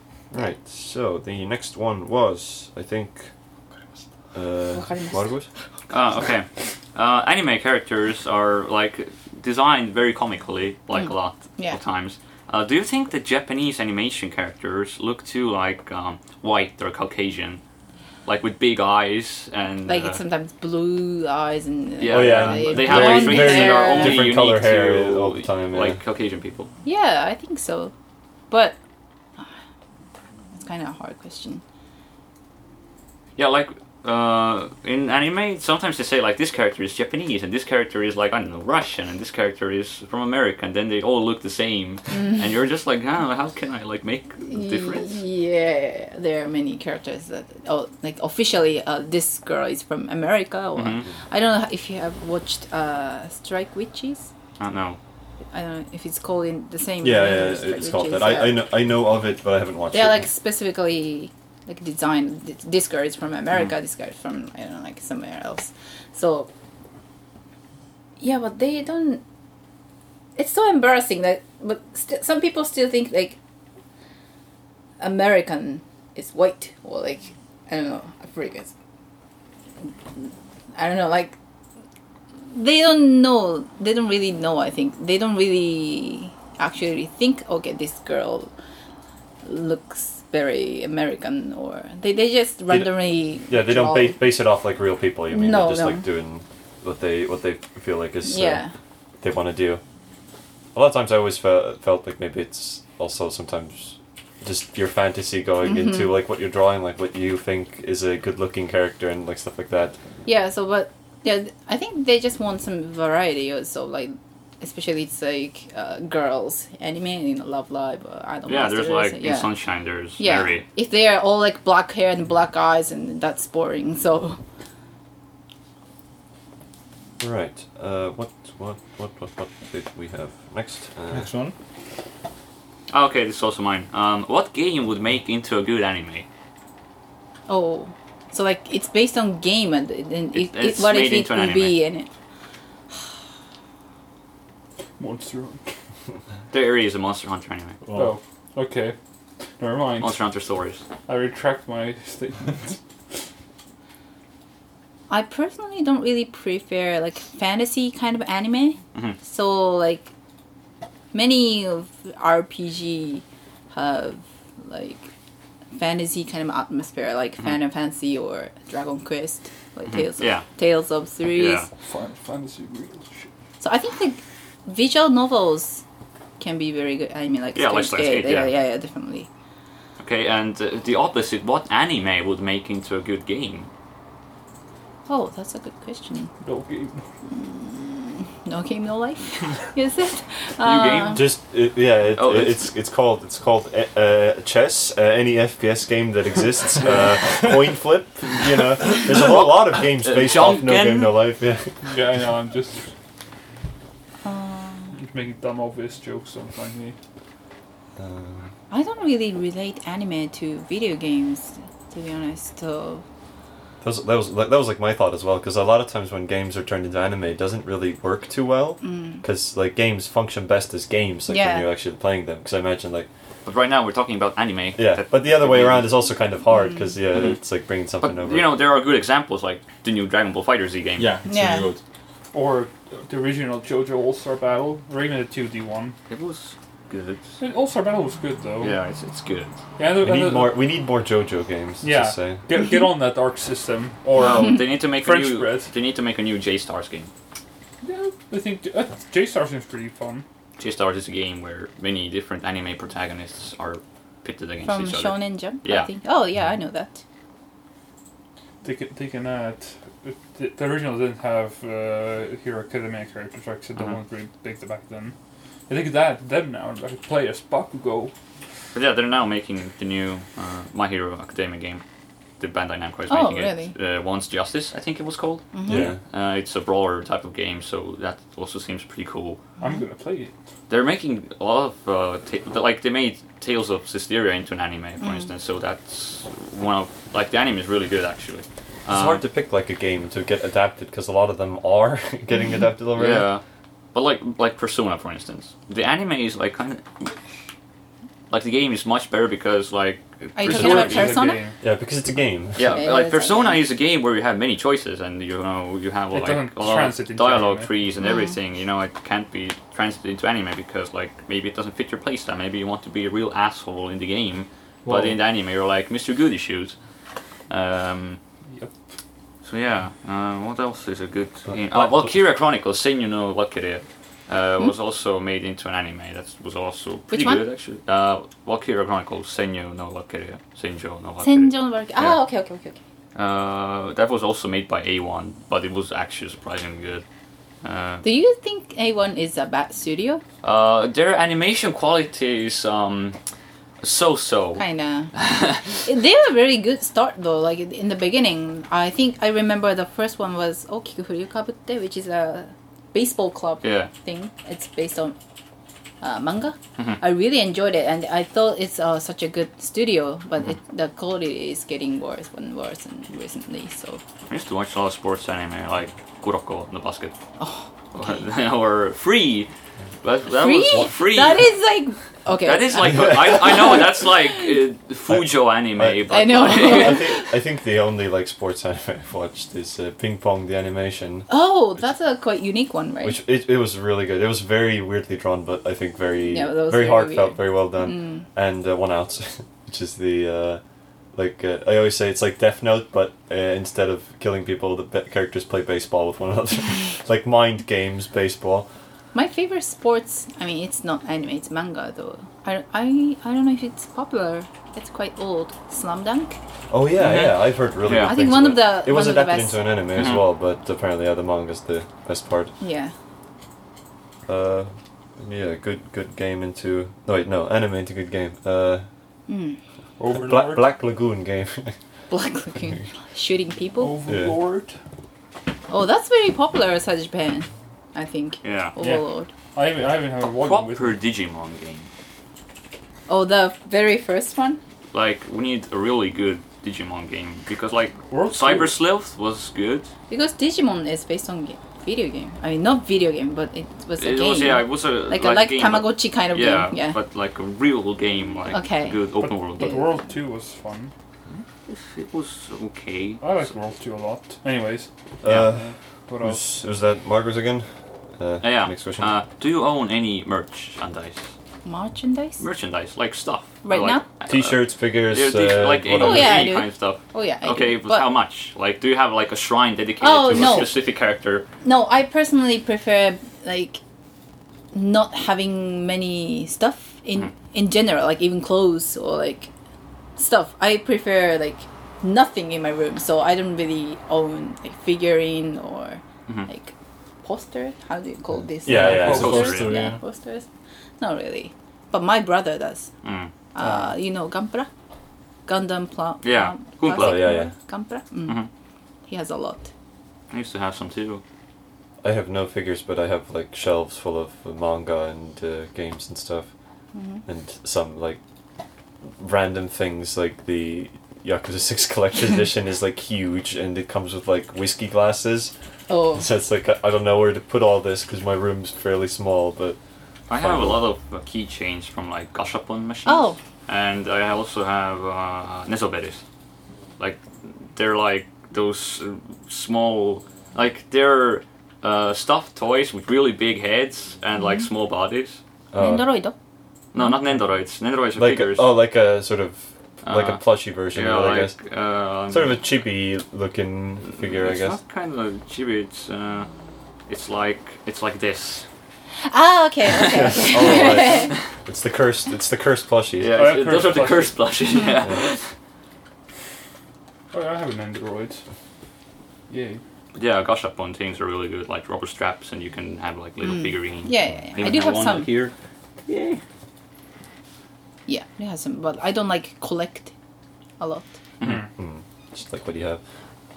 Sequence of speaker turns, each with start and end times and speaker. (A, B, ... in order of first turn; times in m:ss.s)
0:00.3-0:03.3 A
0:04.3-0:05.5 A
0:04.7-0:05.3 B
0:05.9-0:17.6 C
0:10.9-0:11.8 B
0:18.3-0:20.2 C
0:19.8-0:24.3 B
0:22.0-0:26.7 C
0:22.1-0:26.0 A
0:26.8-0:27.9 B
0:28.5-0:28.8 B
0:30.6-0:31.6 B
0:33.4-0:45.2 C
0:44.4-0:54.3 B
0:50.8-0:51.0 C
0:54.6-0:55.0 C
0:55.5-0:58.6 B
0:57.0-1:00.2 A
0:59.9-1:06.5 B
1:08.2-1:09.2 B
1:10.4-1:13.4 B
1:15.0-1:18.7 B
1:20.2-1:21.4 B
1:22.5-1:28.5 B
1:29.4-1:34.3 B
1:32.7-1:38.6 A
1:35.3-1:36.1 B
1:38.2-1:38.7 B
1:39.2-1:39.8 A
1:40.7-1:50.0 A
1:45.6-1:46.2 B
1:50.3-1:59.5 B
1:58.5-2:00.6 C
2:00.2-2:04.4 B
2:07.2-2:11.3 A
2:11.1-2:11.5 D
2:12.9-2:16.3 C
2:17.5-2:22.1 B
2:20.3-2:21.8 C
2:25.0-2:25.7 E
2:26.5-2:27.8 C
2:27.9-2:28.2 D
2:27.9-2:29.0 E
2:29.6-2:30.2 E
2:30.0-2:30.8 C
2:31.1-2:32.8 E
2:35.1-2:40.1 B
2:41.1-2:45.1 B
2:45.7-2:51.7 B
2:49.9-2:50.5 C
2:51.4-2:51.7 C
2:51.8-2:53.3 E
2:53.6-2:55.8 B
2:56.4-2:59.3 B
2:57.6-2:58.6 C
3:00.0-3:03.7 C
3:05.1-3:06.3 B
3:06.4-3:07.0 E
3:07.3-3:11.3 B
3:10.6-3:11.3 C
3:11.1-3:21.7 A
3:12.2-3:12.6 C
3:18.9-3:21.2 C
3:21.8-3:22.9 E
3:24.2-3:25.0 B
3:25.0-3:27.0 E
3:28.0-3:28.5 A
3:28.7-3:33.0 B
3:33.8-3:43.1 A
3:38.8-3:39.2 B
3:41.3-3:41.7 B
3:43.4-3:46.0 C
3:44.8-3:48.6 A
3:46.5-3:47.0 B
3:48.0-3:51.1 C
3:51.0-3:51.8 D
3:51.2-3:51.7 B
3:52.3-3:56.0 E
3:56.1-3:57.4 C
3:57.4-3:58.8 E
3:58.6-3:59.6 C
3:59.8-4:00.6 E
4:00.0-4:02.4 A
4:01.8-4:05.7 E
4:04.2-4:07.1 C
4:07.8-4:10.2 E
4:10.6-4:15.9 C
4:14.6-4:17.0 B
4:18.6-4:25.2 E
4:25.7-4:28.1 E
4:28.7-4:31.8 C
4:32.4-4:39.4 C
4:33.1-4:33.7 B
4:35.5-4:35.9 B
4:35.7-4:36.0 A
4:39.6-4:40.3 E
4:40.7-4:49.2 C
4:45.0-4:45.3 B
4:48.9-4:53.3 A
4:53.0-4:53.4 C
4:53.9-4:57.1 C
4:58.3-5:01.2 C
5:00.4-5:01.4 B
5:00.5-5:01.6 E
5:01.6-5:02.8 A
5:02.6-5:16.8 C
5:02.7-5:03.6 B
5:06.1-5:07.7 E
5:08.0-5:08.4 B
5:14.8-5:15.2 D
5:17.5-5:18.2 C
5:19.4-5:32.2 C
5:21.5-5:22.1 A
5:27.1-5:27.4 B
5:31.2-5:32.8 B
5:33.2-5:37.0 C
5:37.6-5:38.0 C
5:38.0-5:40.2 B
5:40.4-5:43.2 C
5:43.8-5:45.7 C
5:44.6-5:45.1 B
5:45.6-5:55.2 B
5:53.6-5:53.9 C
5:56.0-6:04.0 B
6:04.3-6:07.2 C
6:07.4-6:08.2 B
6:07.9-6:09.5 C
6:10.0-6:11.5 C
6:10.4-6:13.8 B
6:12.4-6:17.0 C
6:12.8-6:13.6 A
6:15.1-6:21.3 A
6:16.1-6:17.3 B
6:21.3-6:23.2 B
6:23.0-6:30.6 A
6:26.3-6:28.3 B
6:31.1-6:38.7 A
6:39.1-6:46.4 B
6:46.7-6:52.5 A
6:47.0-6:48.1 C
6:48.0-6:49.6 B
6:50.0-6:50.3 C
6:52.6-6:52.9 B
6:54.3-6:58.8 A
6:59.3-6:59.6 B
7:00.0-7:00.7 E
7:00.1-7:01.8 A
7:02.1-7:04.0 B
7:03.8-7:04.8 E
7:04.1-7:04.4 A
7:05.7-7:09.3 B
7:08.4-7:08.8 C
7:08.8-7:11.0 E
7:10.4-7:11.9 C
7:13.1-7:14.6 B
7:14.9-7:19.9 C
7:18.1-7:18.8 E
7:20.1-7:27.0 B
7:24.0-7:29.8 C
7:28.5-7:29.0 B
7:29.2-7:30.9 E
7:29.6-7:29.9 B
7:31.3-7:33.2 C
7:33.2-7:36.4 E
7:35.2-7:37.6 A
7:38.2-7:39.1 A
7:38.4-7:41.3 C
7:41.6-7:42.4 B
7:42.4-7:51.5 C
7:43.6-7:44.1 B
7:44.3-7:46.5 A
7:46.0-7:48.1 B
7:50.0-7:50.7 B
7:51.6-7:53.8 B
7:54.7-7:59.5 B
8:00.2-8:10.5 B
8:08.6-8:09.6 A
8:08.7-8:10.0 D
8:09.1-8:09.7 C
8:11.0-8:12.9 B
8:13.0-8:13.3 C
8:13.6-8:14.7 B
8:15.5-8:18.5 B
8:16.2-8:17.4 C
8:16.9-8:17.5 A
8:19.1-8:19.7 B
8:20.3-8:21.2 C
8:22.0-8:26.5 A
8:26.9-8:27.2 B
8:27.3-8:28.2 A
8:29.2-8:35.5 A
8:35.9-8:36.2 B
8:36.1-8:39.8 A
8:40.3-8:46.2 C
8:40.3-8:40.8 A
8:43.1-8:43.4 B
8:47.0-8:55.4 C
8:54.4-8:54.7 B
8:55.7-8:56.1 A
8:55.8-8:56.4 B
8:56.9-8:58.7 C
8:58.2-9:01.6 A
9:00.0-9:02.6 C
9:02.3-9:04.8 A
9:04.2-9:06.5 C
9:07.1-9:08.6 C
9:09.3-9:11.3 B
9:09.9-9:10.8 C
9:10.1-9:13.4 A
9:13.2-9:15.5 C
9:13.3-9:14.4 E
9:14.7-9:15.0 B
9:17.3-9:18.4 E
9:19.5-9:19.8 E
9:20.2-9:25.5 C
9:23.4-9:25.3 B
9:26.1-9:26.4 C
9:28.1-9:30.1 B
9:30.8-9:31.1 B
9:31.4-9:31.7 E
9:31.5-9:33.0 A